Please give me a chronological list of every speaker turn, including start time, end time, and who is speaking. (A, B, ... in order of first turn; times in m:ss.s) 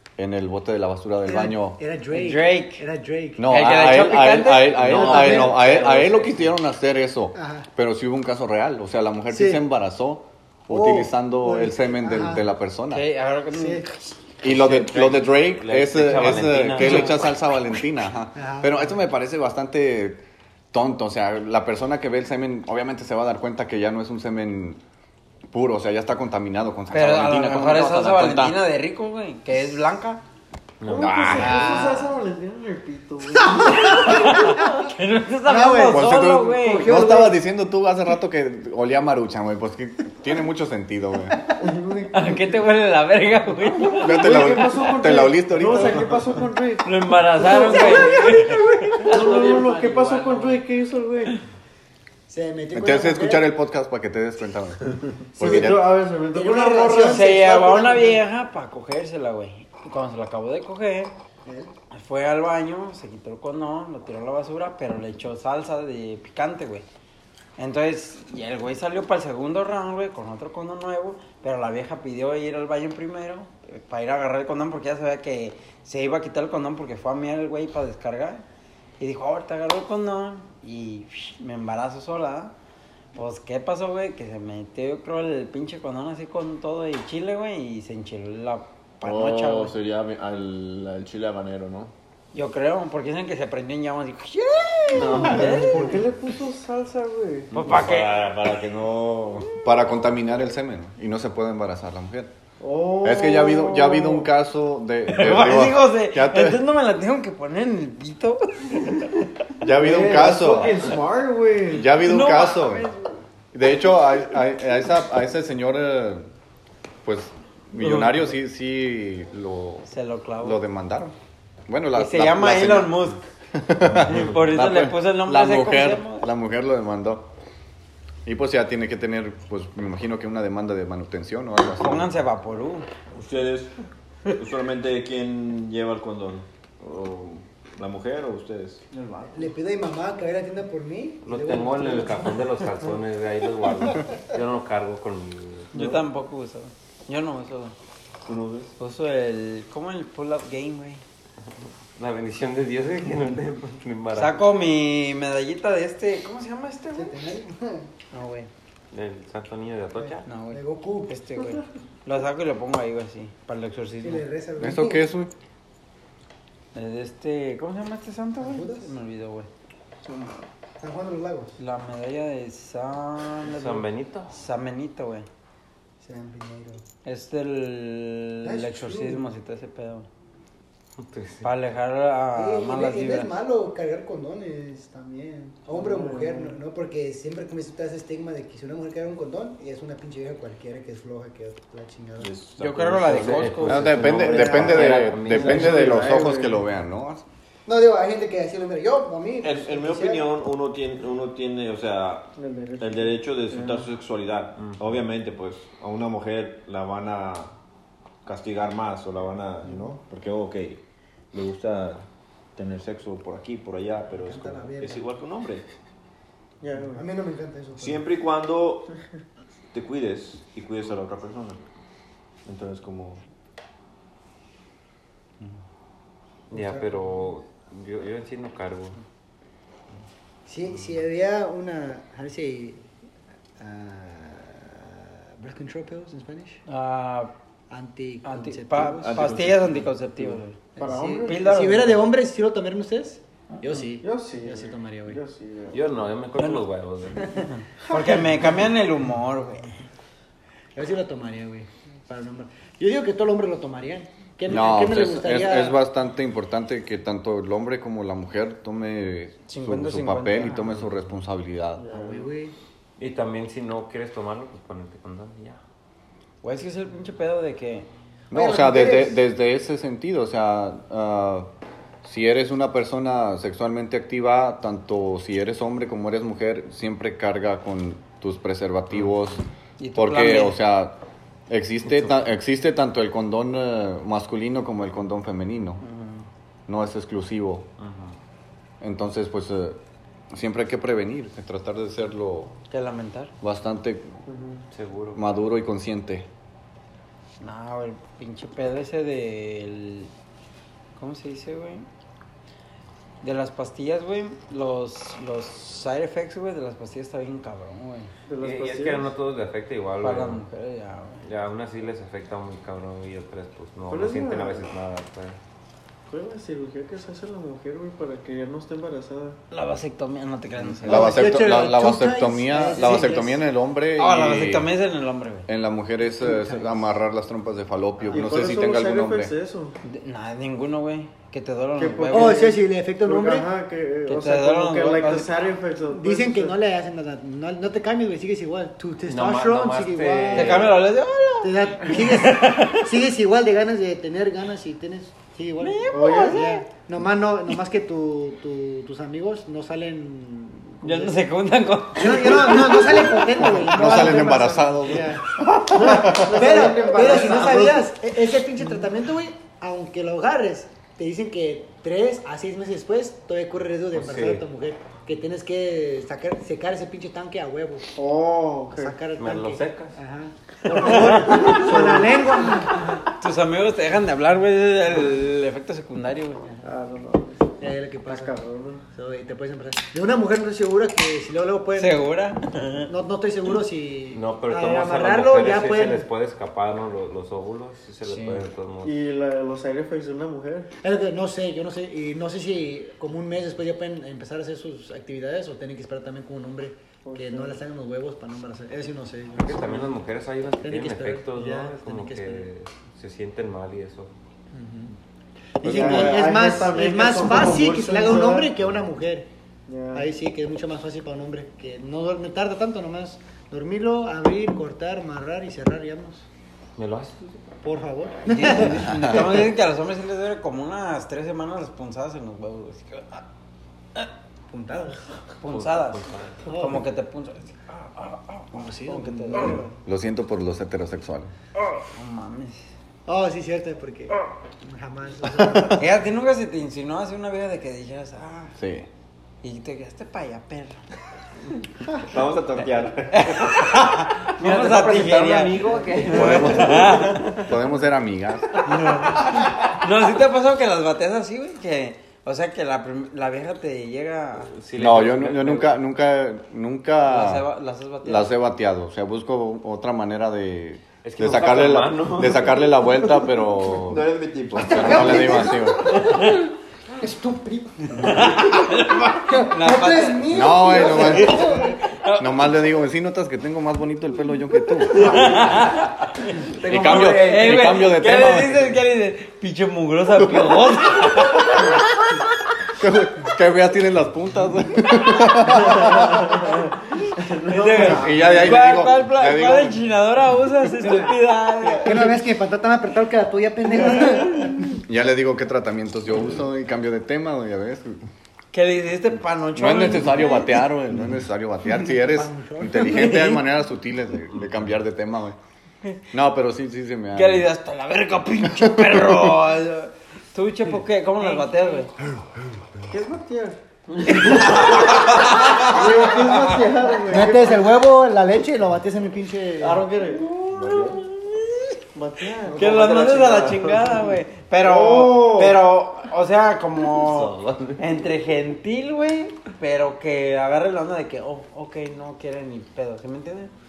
0:00.2-0:01.8 A
0:01.2-0:03.5 B
0:02.1-0:02.8 C
0:03.4-0:13.0 A
0:03.4-0:05.5 C
0:04.8-0:06.5 D
0:04.9-0:05.6 B
0:07.3-0:07.7 B
0:09.3-0:09.6 B
0:10.7-0:12.4 B
0:12.9-0:14.0 C
0:13.5-0:13.9 B
0:14.4-0:24.8 A
0:14.4-0:17.3 D
0:18.3-0:19.0 B
0:25.5-0:28.6 A
0:26.9-0:30.2 C
0:30.8-0:31.6 D
0:30.8-0:34.4 E
0:31.0-0:32.1 C
0:33.4-0:34.8 B
0:33.8-0:37.0 C
0:35.4-0:37.4 B
0:35.8-0:41.4 A
0:41.6-0:42.4 E
0:42.1-0:44.5 C
0:43.9-0:51.4 E
0:44.0-0:46.2 A
0:46.8-0:50.6 C
0:47.7-0:48.2 B
0:52.3-0:53.4 B
0:52.7-0:55.9 A
0:55.4-0:58.2 B
0:55.4-0:57.3 E
0:57.0-1:01.1 C
1:01.4-1:01.7 B
1:01.9-1:06.8 C
1:07.6-1:18.4 C
1:19.0-1:22.5 C
1:23.1-1:29.7 C
1:29.0-1:31.9 F
1:32.3-1:36.0 C
1:35.0-1:37.6 E
1:35.0-1:35.9 F
1:37.5-1:39.6 F
1:37.5-1:38.1 C
1:39.6-1:42.3 A
1:42.6-1:44.3 E
1:43.0-1:46.6 A
1:45.1-1:49.1 C
1:49.6-1:50.8 A
1:49.7-1:51.9 E
1:51.7-1:52.9 A
1:52.0-1:53.1 C
1:53.5-1:56.3 A
1:57.0-1:59.9 A
1:57.8-1:58.3 C
1:59.9-2:00.6 C
2:00.4-2:01.1 A
2:01.7-2:07.3 A
2:01.9-2:03.2 C
2:04.0-2:06.2 C
2:08.2-2:12.1 A
2:11.8-2:12.9 C
2:13.1-2:13.7 F
2:14.3-2:18.9 F
2:18.9-2:19.5 E
2:19.3-2:22.6 B
2:21.2-2:25.7 D
2:25.7-2:27.7 C
2:25.7-2:26.0 F
2:28.2-2:28.7 F
2:28.8-2:31.0 C
2:31.4-2:34.4 D
2:34.1-2:37.1 C
2:36.9-2:37.9 B
2:38.1-2:38.5 C
2:38.9-2:40.3 D
2:40.0-2:41.1 B
2:40.3-2:44.2 C
2:44.0-2:45.0 B
2:44.6-2:45.3 A
2:46.7-2:49.5 C
2:48.4-2:48.9 B
2:50.0-2:50.4 E
2:50.8-2:51.5 B
2:51.6-2:55.3 C
2:53.4-2:54.3 D
2:56.0-2:56.8 B
2:57.0-3:00.1 C
2:58.4-2:59.2 B
3:01.0-3:01.5 D
3:01.4-3:03.3 C
3:02.3-3:12.3 B
3:05.7-3:06.6 E
3:12.2-3:13.8 F
3:12.6-3:14.0 C
3:13.1-3:16.1 D
3:13.6-3:17.2 A
3:14.2-3:16.6 E
3:14.5-3:16.2 F
3:17.6-3:20.3 B
3:19.4-3:27.5 F
3:22.4-3:23.9 E
3:24.6-3:25.0 D
3:28.2-3:35.6 F
3:34.1-3:35.1 B
3:36.6-3:37.1 E
3:36.9-3:38.0 B
3:37.8-3:38.9 F
3:39.7-3:41.6 F
3:42.4-3:43.2 F
3:46.5-3:49.0 D
3:46.5-3:47.1 B
3:50.4-3:52.9 B
3:53.6-3:56.6 B
3:56.7-3:57.3 C
3:57.7-3:59.3 B
3:58.2-4:00.5 C
3:58.8-4:00.4 F
4:00.8-4:01.8 E
4:00.8-4:05.2 B
4:01.2-4:02.1 C
4:03.8-4:05.8 E
4:05.7-4:07.3 D
4:07.2-4:07.4 B
4:07.8-4:09.7 C
4:07.9-4:08.2 E
4:10.7-4:15.8 B
4:14.5-4:21.8 A
4:19.5-4:20.6 C
4:21.8-4:22.3 E
4:21.9-4:22.5 B
4:23.0-4:25.6 D
4:26.4-4:27.9 C
4:28.3-4:31.5 A
4:28.3-4:29.2 B
4:32.0-4:39.4 A
4:39.8-4:40.6 C
4:40.0-4:41.0 A
4:41.5-4:45.8 A
4:45.8-4:46.3 C
4:46.7-4:47.7 A
4:47.8-4:48.2 D
4:48.8-4:52.5 A
4:52.7-4:53.3 C
4:53.4-4:54.2 A
4:54.3-4:54.6 E
4:54.7-4:55.2 D
4:55.1-4:56.3 A
4:57.4-5:00.1 C
5:01.0-5:01.9 C
5:03.2-5:08.1 C
5:08.3-5:09.1 E
5:08.4-5:10.4 D
5:10.0-5:11.2 C
5:11.2-5:15.4 D
5:13.9-5:14.7 E
5:16.1-5:19.4 E
5:19.5-5:21.2 C
5:20.8-5:23.4 B
5:20.8-5:24.7 A
5:24.0-5:25.5 C
5:25.4-5:29.3 A
5:26.3-5:26.6 B
5:28.1-5:29.8 E
5:29.8-5:32.5 C
5:31.7-5:36.6 E
5:32.1-5:33.5 B
5:34.1-5:35.3 C
5:35.9-5:40.8 B
5:39.0-5:40.8 D
5:40.3-5:42.9 C
5:41.4-5:51.2 B
5:45.6-5:46.6 C
5:45.9-5:46.4 E
5:50.8-5:54.3 C
5:51.9-5:55.2 B
5:53.4-5:53.7 E
5:53.5-5:55.2 A
5:54.9-5:57.9 E
5:55.7-5:56.4 A
5:56.1-6:07.9 B
6:03.9-6:04.4 D
6:07.9-6:09.0 E
6:08.7-6:12.8 B
6:09.2-6:10.0 D
6:10.7-6:12.4 E
6:11.1-6:11.6 C
6:12.7-6:16.6 C
6:16.6-6:17.5 E
6:17.6-6:18.4 B
6:18.0-6:18.8 E
6:18.9-6:22.1 B
6:21.8-6:22.9 C
6:22.9-6:26.1 B
6:24.1-6:29.0 D
6:28.0-6:28.4 C
6:28.8-6:30.7 E
6:30.8-6:40.1 B
6:37.0-6:37.6 E
6:39.4-6:44.1 D
6:40.6-6:42.5 B
6:44.5-6:44.9 B
6:45.6-6:49.3 B
6:45.6-6:46.5 A
6:45.6-6:48.5 E
6:49.7-6:50.1 E
6:49.9-6:56.3 B
6:56.8-6:57.4 D
6:57.6-6:59.1 B
6:58.3-7:03.2 C
6:58.7-6:59.3 A
7:04.5-7:05.0 B
7:05.4-7:09.6 C
7:05.4-7:06.5 D
7:06.5-7:06.8 B
7:08.5-7:09.6 B
7:09.3-7:09.6 E
7:09.8-7:11.3 A
7:11.9-7:12.7 C
7:13.0-7:16.0 B
7:15.7-7:18.6 C
7:18.6-7:18.9 A
7:19.4-7:20.8 C
7:22.1-7:23.6 F
7:23.1-7:27.4 C
7:24.4-7:27.4 D
7:26.1-7:28.5 A
7:28.7-7:29.2 E
7:29.3-7:34.5 C
7:34.5-7:35.8 D
7:34.8-7:37.4 A
7:37.0-7:38.3 C
7:38.0-7:46.0 A
7:41.0-7:42.6 D
7:43.8-7:45.4 F
7:44.6-7:51.8 B
7:48.0-7:52.3 C
7:50.3-7:55.4 A
7:55.0-8:01.8 C
7:56.6-7:58.7 A
8:02.8-8:06.4 A
8:05.7-8:08.7 E
8:07.5-8:12.1 C
8:07.8-8:09.8 A
8:10.8-8:11.1 B
8:11.7-8:14.8 B
8:14.8-8:18.0 A
8:18.5-8:20.6 C
8:19.6-8:25.4 A
8:21.8-8:23.4 B
8:22.9-8:23.3 C
8:24.3-8:24.7 D
8:26.1-8:27.5 A
8:27.1-8:31.9 C
8:28.6-8:29.3 A
8:31.2-8:31.9 B
8:32.9-8:37.7 E
8:34.1-8:36.6 C
8:37.1-8:39.9 B
8:39.6-8:40.8 E
8:40.5-8:41.0 F
8:40.7-8:41.6 C
8:41.9-8:42.8 E
8:42.5-8:53.5 C
8:42.6-8:44.0 F
8:44.6-8:45.6 E
8:46.9-8:47.8 F